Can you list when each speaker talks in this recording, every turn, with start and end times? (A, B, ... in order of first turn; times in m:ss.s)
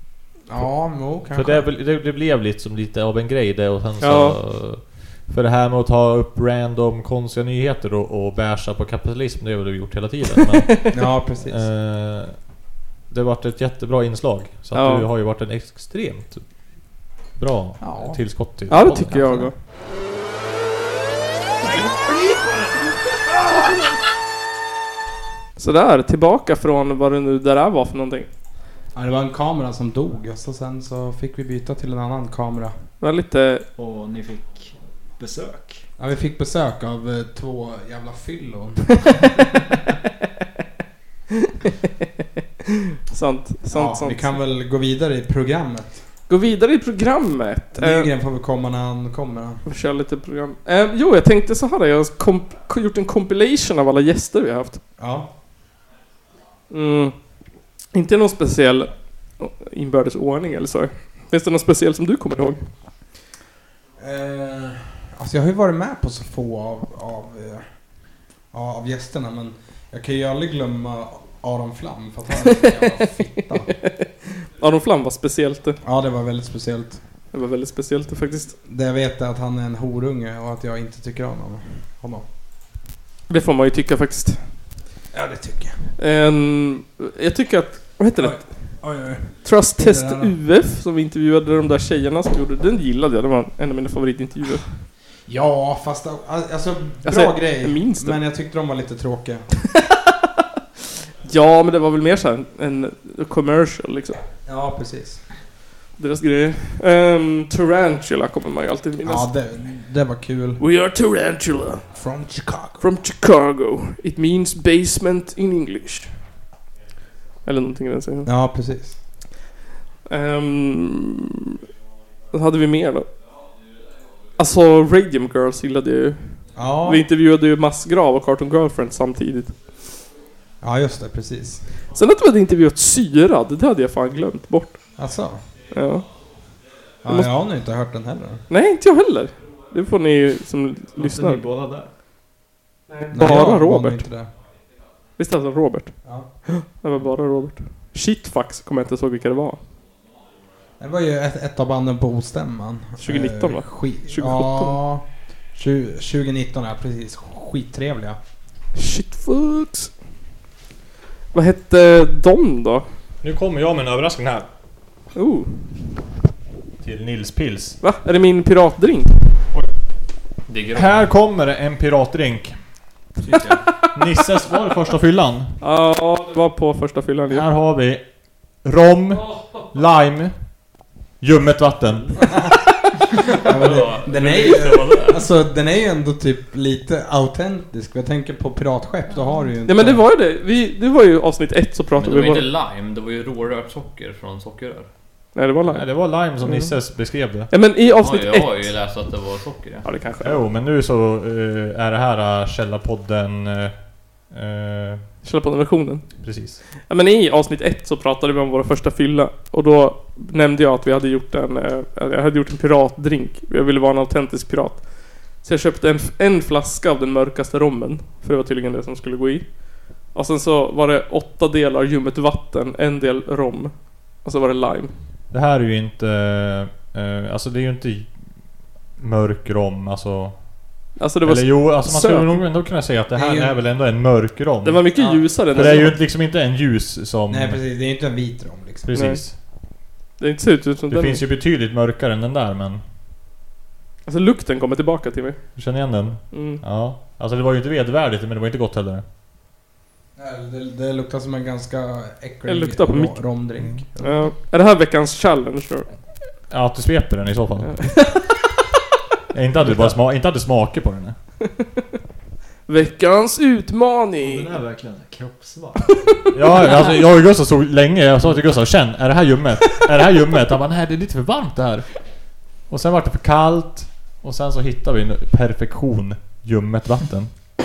0:00.5-0:01.7 A
0:01.3-0:12.5 B
0:04.0-0:04.4 C
0:10.9-0:11.6 A
0:13.1-0:16.5 B
0:14.7-0:15.1 C
0:17.3-0:19.5 B
0:17.8-0:18.4 A
0:18.7-0:19.5 C
0:25.6-0:28.3 C
0:28.9-0:32.8 A
0:33.0-0:33.7 C
0:33.8-0:35.8 D
0:36.0-0:39.2 A
0:43.1-0:44.4 C
0:43.7-0:46.0 A
0:46.3-0:48.1 C
0:47.7-0:49.6 A
0:49.6-0:54.8 C
0:55.0-0:55.3 A
0:56.7-0:57.2 C
0:57.9-1:02.6 C
1:04.0-1:07.8 A
1:08.5-1:13.7 A
1:13.7-1:15.8 C
1:15.8-1:17.0 A
1:17.3-1:18.6 C
1:18.6-1:22.3 A
1:23.3-1:24.5 C
1:25.1-1:25.8 A
1:26.0-1:34.8 C
1:28.2-1:30.4 A
1:35.3-1:39.5 A
1:37.0-1:38.2 C
1:41.2-1:44.2 C
1:44.4-1:45.2 A
1:46.0-1:49.4 C
1:49.0-1:50.6 A
1:50.6-1:51.9 C
1:51.9-1:52.8 A
1:52.8-1:56.2 C
1:57.4-1:58.3 C
1:58.2-1:59.0 A
2:00.1-2:01.6 C
2:02.3-2:03.1 C
2:04.4-2:09.6 C
2:06.5-2:07.0 A
2:10.6-2:11.7 A
2:11.9-2:14.8 C
2:15.0-2:15.4 A
2:15.7-2:16.0 C
2:17.0-2:18.4 A
2:18.5-2:21.4 C
2:21.0-2:21.9 D
2:22.9-2:24.0 C
2:23.1-2:24.3 A
2:25.2-2:29.6 C
2:26.0-2:26.3 A
2:30.8-2:38.2 A
2:33.0-2:34.8 C
2:38.7-2:39.9 C
2:41.3-2:42.8 C
2:43.2-2:44.5 B
2:45.1-2:45.8 C
2:46.8-2:47.8 B
2:47.8-2:49.3 C
2:50.5-2:51.1 E
2:50.7-2:52.6 B
2:53.9-2:55.6 B
2:55.6-2:57.5 C
2:57.3-3:00.3 B
3:01.2-3:02.3 B
3:02.2-3:02.6 A
3:03.3-3:10.0 A
3:03.4-3:05.2 E
3:09.6-3:12.5 C
3:12.0-3:14.9 E
3:15.3-3:15.9 C
3:15.6-3:17.5 B
3:17.5-3:18.7 C
3:17.9-3:19.8 E
3:19.8-3:20.4 C
3:20.2-3:25.1 B
3:25.2-3:26.2 C
3:26.2-3:26.6 B
3:26.8-3:44.9 C
3:45.3-3:57.6 B
3:51.0-3:52.4 C
3:53.1-3:53.6 A
3:54.6-3:56.0 C
3:55.0-3:55.9 A
3:57.3-3:59.0 A
3:58.8-3:59.4 B
3:58.9-3:59.2 C
4:00.2-4:01.2 C
4:00.9-4:02.8 B
4:04.0-4:05.6 C
4:05.6-4:09.0 B
4:06.3-4:06.6 C
4:10.2-4:14.3 A
4:12.4-4:15.9 C
4:16.5-4:18.2 B
4:17.6-4:18.3 C
4:19.3-4:21.2 B
4:22.7-4:24.6 C
4:24.2-4:26.3 D
4:26.3-4:32.0 B
4:32.7-4:37.3 B